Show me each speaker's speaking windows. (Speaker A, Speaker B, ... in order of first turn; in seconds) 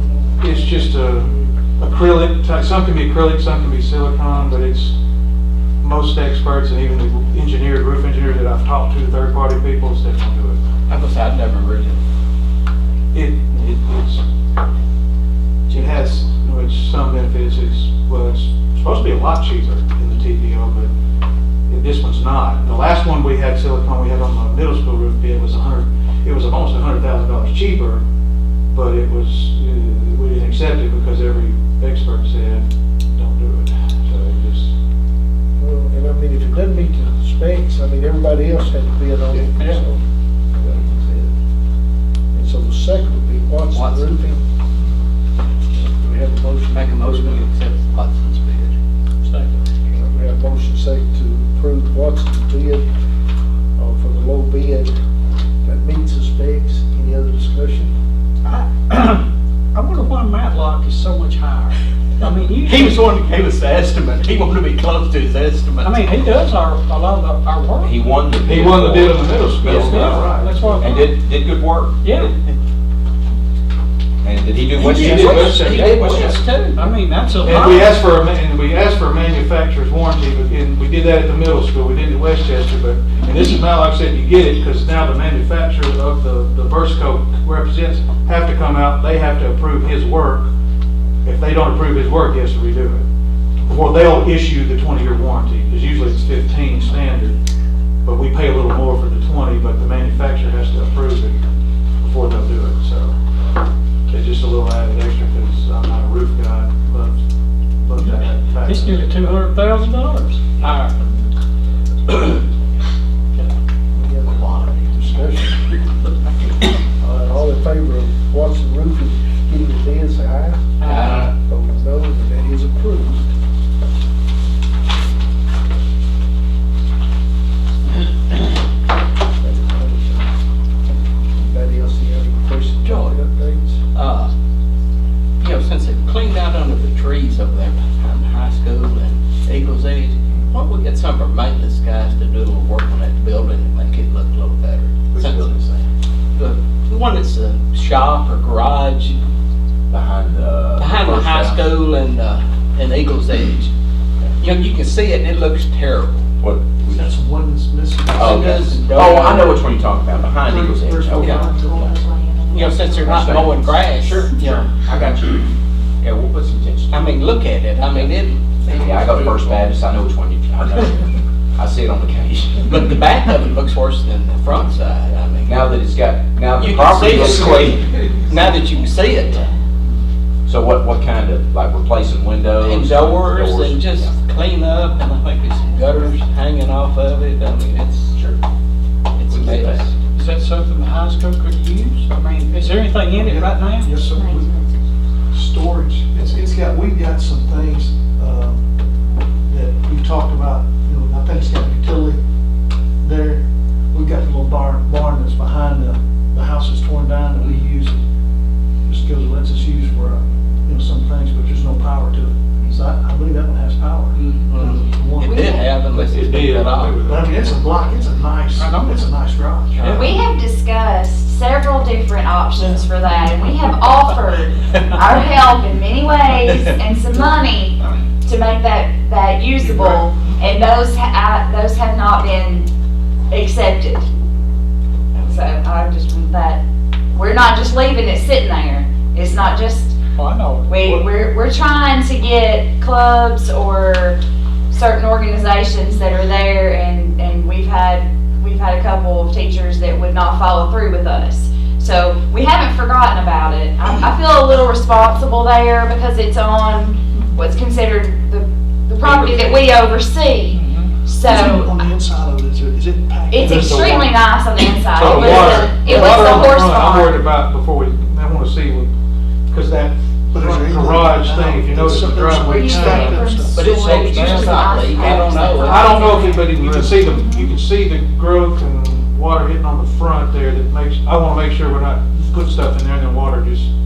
Speaker A: 0.4-5.0, 5.8-10.6, 13.1-14.2, 15.7-20.9, 21.7-28.0, 28.7-34.7, 68.4-70.8, 74.8-76.3, 77.4-90.5, 91.2-93.1, 93.6-97.4, 98.0-101.4, 102.0-103.2, 104.1-107.2, 107.8-109.1, 215.9-217.6, 219.8-220.1, 260.5-260.9, 263.4-264.1, 264.9-268.9, 269.5-273.4, 273.9-274.6, 275.6-283.7
Speaker B: 10.9-12.0, 15.7-16.0, 43.7-44.1, 46.7-48.8, 62.6-66.0, 74.7-76.8, 120.8-121.3, 132.8-133.2, 133.9-134.3, 135.4-145.4, 146.3-149.2, 150.8-153.7, 154.4-156.2, 158.1-159.6, 161.2-161.4, 162.5-164.7, 166.9-169.7, 172.7-175.7, 176.6-179.5, 182.6-188.2, 189.2-189.9, 214.1-217.0, 224.7-225.0, 226.5-226.8, 259.0-259.8, 273.5-276.1
Speaker C: 35.6-40.0, 40.5-41.3, 42.3-44.5, 45.7-47.5, 49.8-52.9, 53.8-54.9, 55.6-57.9, 113.9-115.6, 117.0-120.7, 121.3-123.2, 129.4-130.3, 131.3-133.8
Speaker D: 39.5-39.9, 49.2-49.6, 58.5-63.2, 65.8-68.0, 69.8-71.1, 72.0-72.3, 76.8-78.0, 108.6-111.0, 120.8-121.3, 190.1-194.0, 218.6-219.1, 240.2-240.8
Speaker E: 67.8-72.3, 74.2-76.5, 145.1-145.9, 149.9-151.7, 156.4-157.1, 158.2-161.4, 163.0-165.5, 166.0-167.2, 167.8-168.1, 168.7-172.9, 175.4-178.0, 180.5-184.1, 189.3-189.9
Speaker F: 156.9-158.8, 160.4-162.3, 193.1-194.6, 195.3-198.6, 199.4-202.2, 203.0-208.0, 208.8-215.4, 217.0-220.0, 222.6-222.9, 229.7-230.0, 261.2-264.0, 265.1-266.5, 270.3-273.8
Speaker G: 215.3-215.7, 219.8-232.7, 233.3-234.1, 235.2-236.6, 237.1-239.9, 240.7-244.2, 244.7-261.7, 263.3-267.2, 272.4-277.5